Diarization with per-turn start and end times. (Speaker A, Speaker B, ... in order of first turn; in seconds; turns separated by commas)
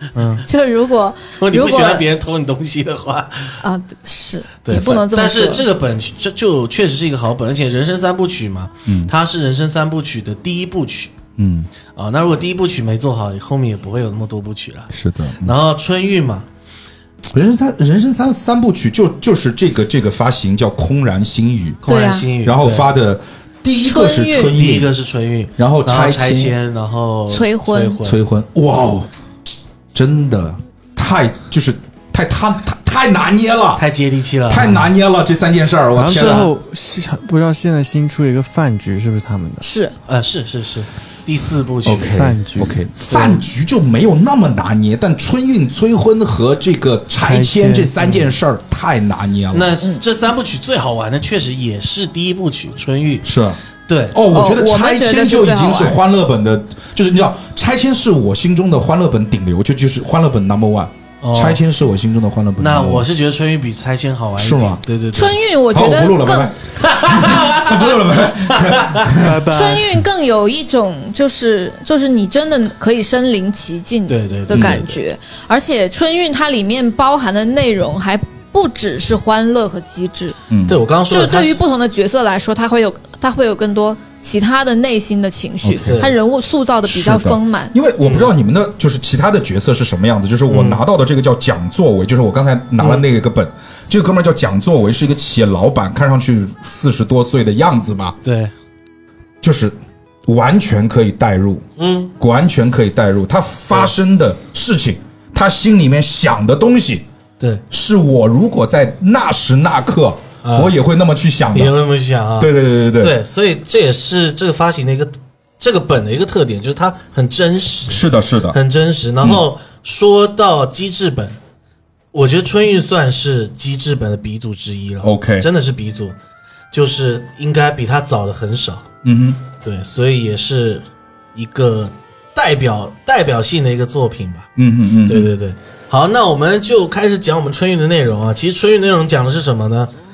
Speaker A: 0.2-0.4, Speaker B: 0.4-2.1, Speaker C: 1.4-3.6, Speaker B: 3.6-5.6, Speaker C: 4.7-11.1, Speaker D: 8.9-9.1, Speaker D: 11.4-11.7, Speaker C: 12.0-14.9, Speaker D: 14.9-15.5, Speaker C: 15.4-16.5, Speaker D: 17.3-21.8, Speaker C: 21.8-22.9, Speaker B: 21.9-22.3, Speaker D: 22.4-24.9, Speaker B: 23.8-24.5, Speaker C: 24.5-28.2, Speaker D: 25.6-26.6, Speaker B: 27.3-28.0, Speaker D: 28.0-29.1, Speaker D: 29.9-33.8, Speaker C: 33.8-34.7, Speaker D: 34.5-36.5, Speaker A: 36.0-39.6, Speaker C: 36.1-36.5, Speaker B: 39.6-40.0, Speaker C: 40.1-42.2, Speaker D: 41.9-49.7, Speaker A: 42.0-43.2, Speaker A: 47.2-48.2, Speaker C: 49.5-53.2, Speaker D: 53.2-63.1, Speaker C: 53.9-54.2, Speaker B: 54.3-56.0, Speaker C: 61.2-61.6, Speaker C: 62.6-65.5, Speaker D: 64.4-64.8, Speaker B: 65.1-66.5, Speaker D: 65.7-69.3, Speaker C: 66.8-69.2, Speaker A: 69.2-69.9, Speaker B: 69.5-80.4, Speaker C: 74.1-75.0, Speaker D: 74.5-74.9, Speaker D: 80.5-80.8, Speaker C: 80.7-81.6, Speaker B: 81.1-87.7, Speaker D: 85.6-86.1, Speaker C: 85.9-86.2, Speaker D: 86.9-98.2, Speaker C: 88.0-88.3, Speaker C: 90.5-90.8, Speaker C: 98.2-98.5, Speaker D: 99.4-99.8, Speaker D: 100.3-101.7, Speaker C: 101.8-102.1, Speaker D: 102.2-107.0, Speaker D: 107.7-111.8, Speaker C: 110.4-110.7, Speaker C: 111.5-121.4, Speaker D: 112.4-113.2, Speaker D: 117.9-118.6, Speaker C: 122.1-126.2, Speaker D: 125.0-125.5, Speaker C: 126.7-128.9, Speaker D: 129.0-129.4, Speaker C: 129.6-130.8, Speaker C: 131.3-134.5, Speaker D: 134.6-135.3, Speaker C: 135.1-139.9